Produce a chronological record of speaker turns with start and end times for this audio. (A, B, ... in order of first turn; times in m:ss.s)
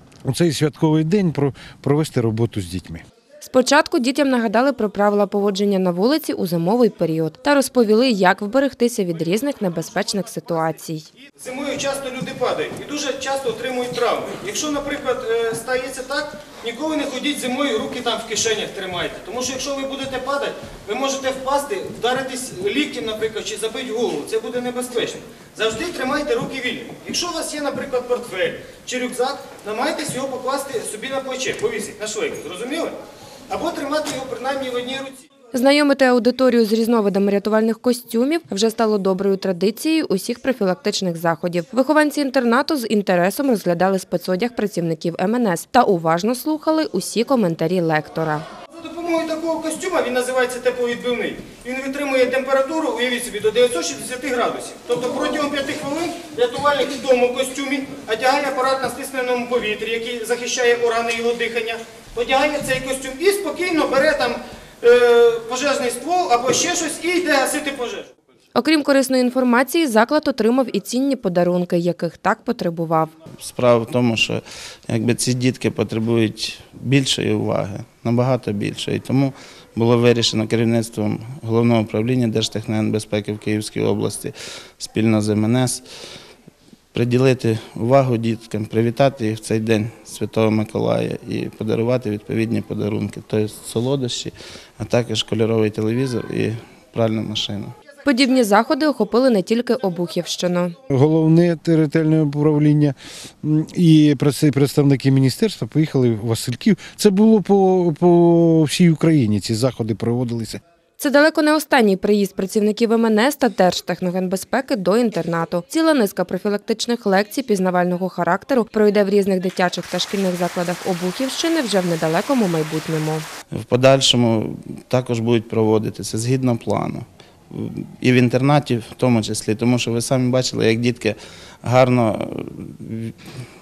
0:00.3-0:03.0 A
0:03.4-0:11.1 B
0:11.4-0:33.0 C
0:33.5-0:35.2 C
0:35.5-0:48.4 B
0:48.8-1:08.1 C
1:08.6-1:13.1 B
1:13.4-1:25.8 D
1:26.9-1:37.8 D
1:38.0-1:40.7 B
1:40.9-1:50.6 A
1:51.0-2:03.2 B
2:03.5-2:13.2 D